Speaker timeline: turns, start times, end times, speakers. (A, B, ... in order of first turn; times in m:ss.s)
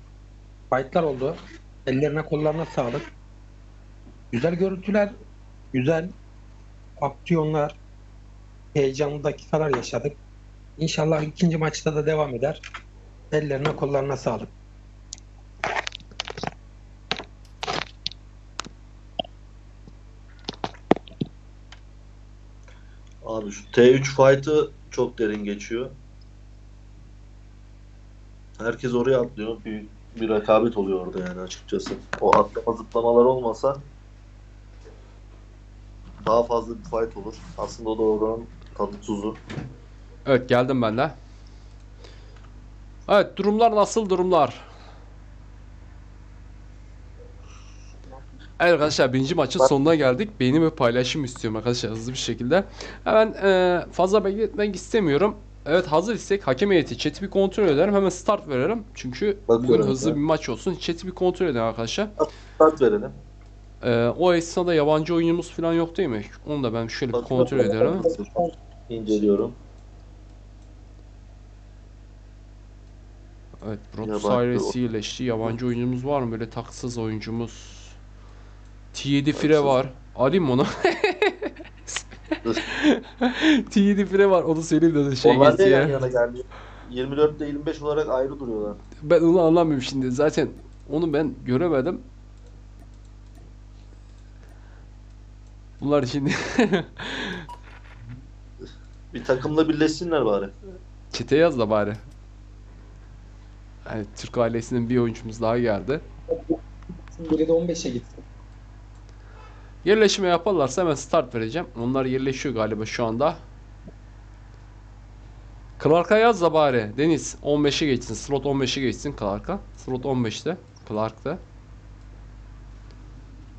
0:00.7-0:03.0 A
0:04.3-0:05.1 A
0:05.7-0:06.1 A
0:07.0-0:07.8 A
0:08.8-0:10.2 A
0:10.8-0:12.6 A
0:13.3-0:14.5 A
0:23.2-0:25.9 B
0:28.6-0:33.8 B
0:36.2-0:39.4 B
0:40.3-0:41.2 C
0:43.1-0:44.7 C
0:48.6-1:02.1 C
0:59.5-1:00.2 B
1:02.6-1:03.1 B
1:03.8-1:08.1 C
1:07.1-1:09.6 B
1:13.6-1:18.0 C
1:14.0-1:14.7 B
1:18.9-1:21.5 C
1:19.4-1:19.7 B
1:22.6-1:26.0 C
1:25.2-1:28.8 B
1:29.0-1:32.0 C
1:35.8-1:37.4 C
1:39.1-1:40.5 B
1:41.1-1:42.0 C
1:43.9-1:46.0 C
1:47.2-1:48.2 A
1:49.8-1:53.4 C
1:55.8-2:01.4 C